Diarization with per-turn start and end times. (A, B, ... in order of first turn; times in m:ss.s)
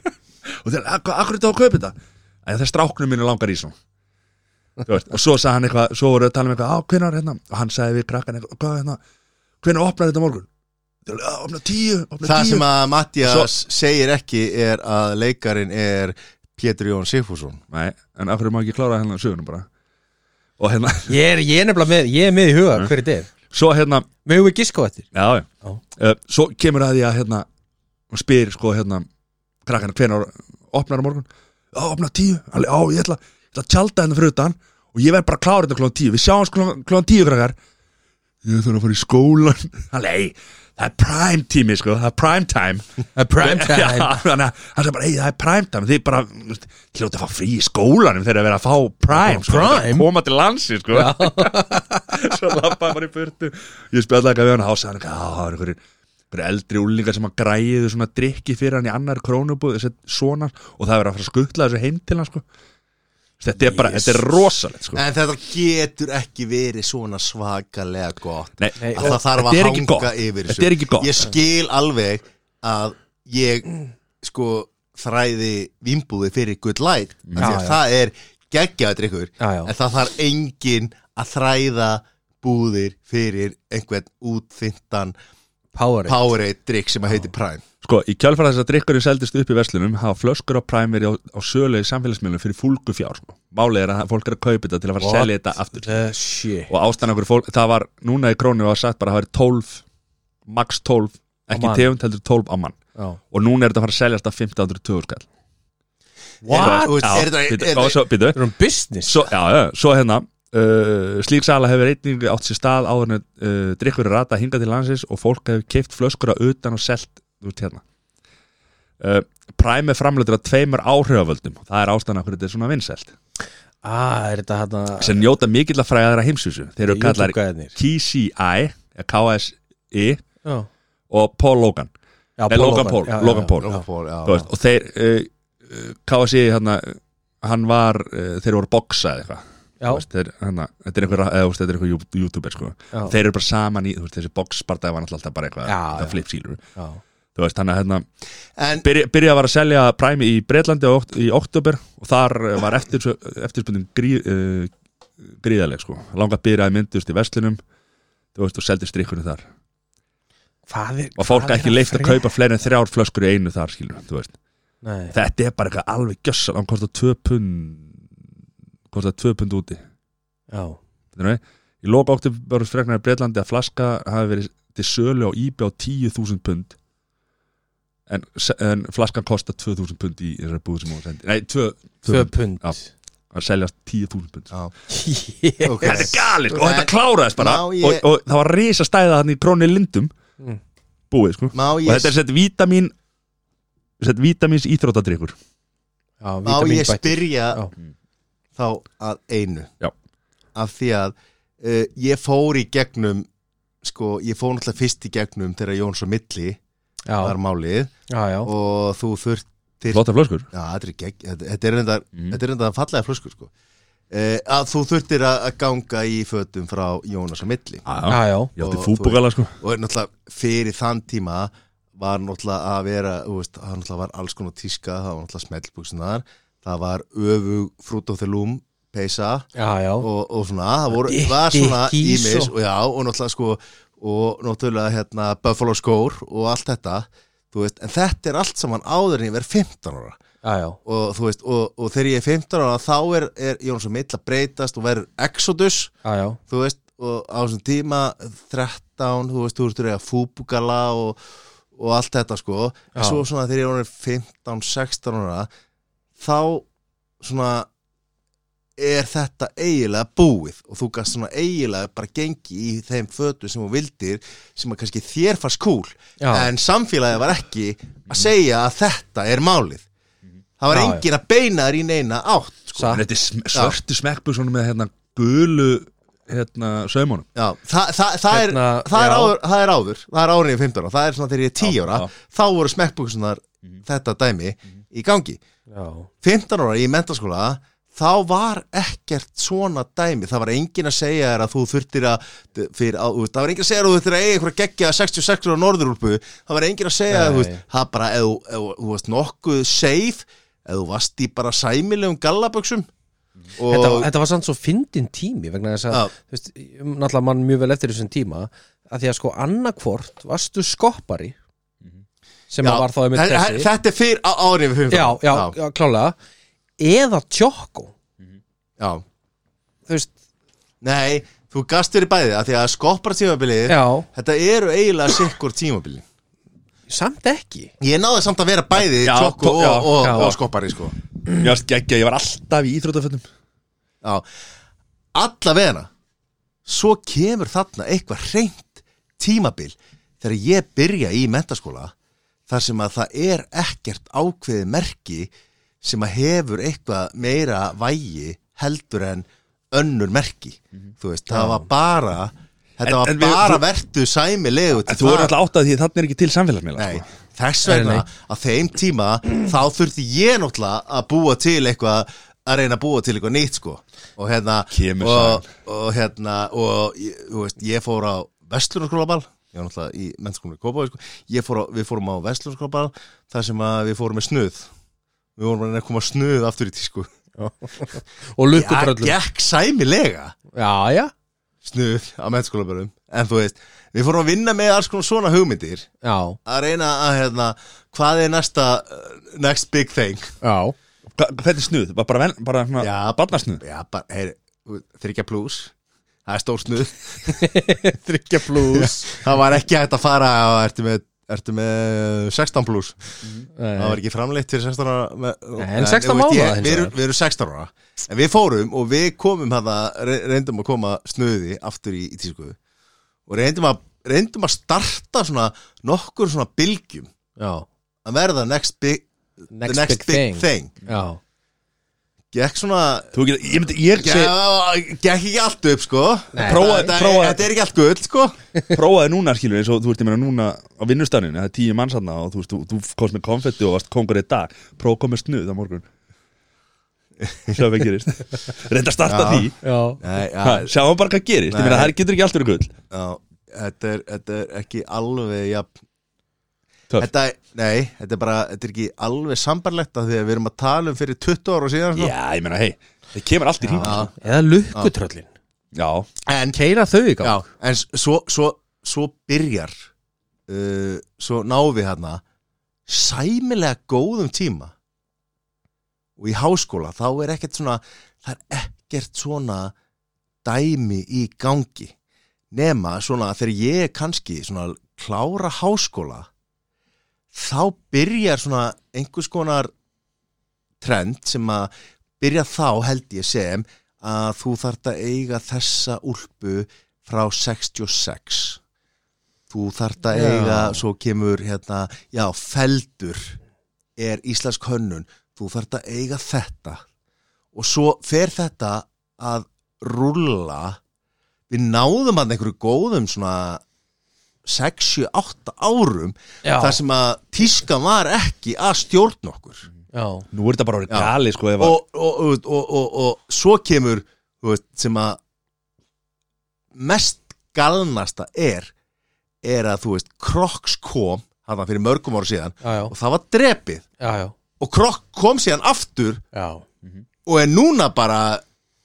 0:00.5-0:03.7 A
0:04.8-0:09.0 A
0:09.6-0:10.5 A
0:11.1-0:12.7 A
0:12.2-0:17.6 B
0:13.2-0:13.5 A
0:17.7-0:19.7 A
0:20.6-0:21.1 A
0:21.1-0:23.3 C
0:23.5-0:24.1 A
0:24.2-0:25.1 C
0:25.1-0:27.4 A
0:28.1-0:29.1 A
0:29.6-0:37.6 A
0:38.4-0:42.8 A
0:43.2-0:44.2 C
0:43.4-0:55.8 A
0:49.1-0:50.1 C
0:50.9-0:52.1 C
0:56.3-1:02.4 A
1:03.4-1:05.0 A
1:03.6-1:04.3 B
1:05.0-1:13.7 B
1:08.6-1:11.1 A
1:08.8-1:09.2 C
1:14.2-1:25.2 B
1:17.3-1:17.6 A
1:17.4-1:17.8 C
1:19.4-1:19.7 C
1:25.7-1:26.3 C
1:26.1-1:27.6 B
1:27.8-1:36.0 A
1:35.0-1:36.7 C
1:36.7-1:39.8 A
1:40.5-1:42.8 A
1:41.5-1:41.9 C
1:43.3-1:45.3 A
1:46.4-1:47.1 C
1:46.5-1:48.0 B
1:46.5-1:48.4 A
1:48.3-1:49.3 C
1:49.0-1:57.8 A
1:59.0-2:03.1 A
2:03.8-2:05.2 C
2:05.0-2:10.2 A
2:06.8-2:07.7 C
2:11.1-2:11.9 A
2:12.4-2:13.8 C
2:12.5-2:26.6 A
2:13.6-2:14.5 B
2:25.7-2:26.2 C
2:26.8-2:27.0 C
2:27.4-2:28.0 A
2:28.6-2:28.9 B
2:28.8-2:34.7 A
2:35.3-2:37.6 A
2:38.4-2:39.4 A
2:40.7-2:42.2 C
2:41.2-2:44.3 A
2:44.8-2:45.2 C
2:45.1-2:47.9 A
2:48.9-2:49.8 A
2:50.5-2:50.8 C
2:51.2-2:56.8 A
2:58.1-3:02.8 A
3:02.0-3:02.9 C
3:03.3-3:04.5 A
3:04.9-3:06.2 C
3:05.6-3:08.0 B
3:05.8-3:10.1 A
3:11.1-3:12.9 A
3:11.5-3:12.2 B
3:14.0-3:15.4 A
3:16.2-3:17.7 C
3:16.4-3:17.6 B
3:18.6-3:19.7 B
3:20.6-3:23.3 B
3:23.8-3:26.6 B
3:27.1-3:27.4 C
3:27.2-3:27.9 B
3:28.1-3:28.5 C
3:28.4-3:33.5 B
3:29.9-3:30.5 A
3:34.1-3:37.8 B
3:37.9-3:39.6 A
3:38.1-3:38.5 C
3:38.6-3:49.5 B
3:49.6-3:50.1 C
3:50.0-4:00.2 B
3:50.9-3:52.5 C
4:00.4-4:00.8 C
4:00.8-4:05.9 B
4:06.0-4:06.4 C
4:06.5-4:11.2 B
4:11.7-4:15.5 B
4:12.9-4:13.2 C
4:16.2-4:16.7 B
4:17.2-4:17.7 B
4:18.8-4:29.8 B
4:26.2-4:26.5 C
4:30.6-4:33.0 B
4:30.7-4:31.0 C
4:32.8-4:33.0 C
4:32.9-4:37.2 A
4:37.4-4:45.4 B
4:38.3-4:39.3 C
4:41.7-4:42.1 A
4:45.7-4:46.1 C
4:46.2-5:02.9 B
4:57.1-4:57.6 C
5:03.6-5:04.1 B
5:03.7-5:11.4 C
5:12.5-5:13.7 C
5:12.6-5:15.6 B
5:14.9-5:16.2 C
5:16.8-5:17.9 C
5:18.8-5:19.0 B
5:19.9-5:20.1 C
5:20.8-5:26.0 B
5:23.7-5:24.1 C
5:26.9-5:27.7 C
5:27.8-5:31.0 B
5:29.0-5:30.4 A
5:30.0-5:30.3 C
5:31.3-5:33.2 A
5:35.1-5:35.9 B
5:36.7-5:41.9 B
5:42.5-5:45.3 B
5:45.8-5:55.4 B
5:51.3-5:51.6 C
5:52.8-5:53.6 A
5:54.9-5:57.0 A
5:56.8-6:14.7 B
5:57.7-5:58.0 C
6:04.7-6:05.5 A
6:15.4-6:17.1 B
6:17.4-6:19.2 C
6:18.5-6:20.4 B
6:20.5-6:21.1 C
6:21.6-6:25.9 B
6:26.0-6:26.4 C
6:26.4-6:30.3 B
6:30.4-6:30.8 C
6:31.2-6:33.6 A
6:32.8-6:35.7 B
6:36.3-6:37.7 B
6:37.3-6:39.2 C
6:38.6-6:43.0 B
6:43.6-6:44.0 C
6:43.8-6:52.6 B
6:45.6-6:47.0 C
6:53.3-6:57.1 B
6:57.4-6:57.7 C
6:58.0-6:59.1 B
6:59.5-7:01.2 C
6:59.6-7:00.7 B
7:02.3-7:03.1 B
7:03.1-7:04.4 A
7:04.0-7:08.4 B
7:06.3-7:06.9 C
7:06.4-7:07.4 A
7:08.7-7:15.8 A
7:17.5-7:19.6 A
7:19.1-7:19.5 B
7:19.6-7:20.0 C
7:20.0-7:20.7 B
7:20.4-7:22.7 A
7:21.5-7:21.9 B
7:22.9-7:25.7 B
7:27.0-7:32.1 B
7:32.0-7:34.1 A
7:33.6-7:35.3 C
7:33.8-7:34.1 B
7:35.7-7:36.1 A
7:36.2-7:36.6 B
7:36.5-7:37.4 C
7:37.2-7:39.7 B
7:40.5-7:42.2 B
7:42.9-7:44.7 B
7:46.2-7:49.7 B
7:50.4-7:51.9 B
7:52.5-7:56.3 B
7:57.3-7:59.7 B
8:00.8-8:08.6 B
8:09.5-8:13.4 B
8:10.1-8:10.8 C
8:14.0-8:16.8 B
8:17.5-8:20.8 B
8:21.5-8:23.6 B
8:24.4-8:29.7 B
8:26.4-8:26.8 C
8:29.9-8:30.3 C
8:30.3-8:31.8 A
8:30.9-8:35.2 B
8:36.7-8:38.7 B
8:39.4-8:43.9 B
8:42.6-8:42.9 C
8:44.0-8:44.3 C
8:44.6-8:46.2 B
8:46.3-8:46.6 C
8:47.3-8:48.4 B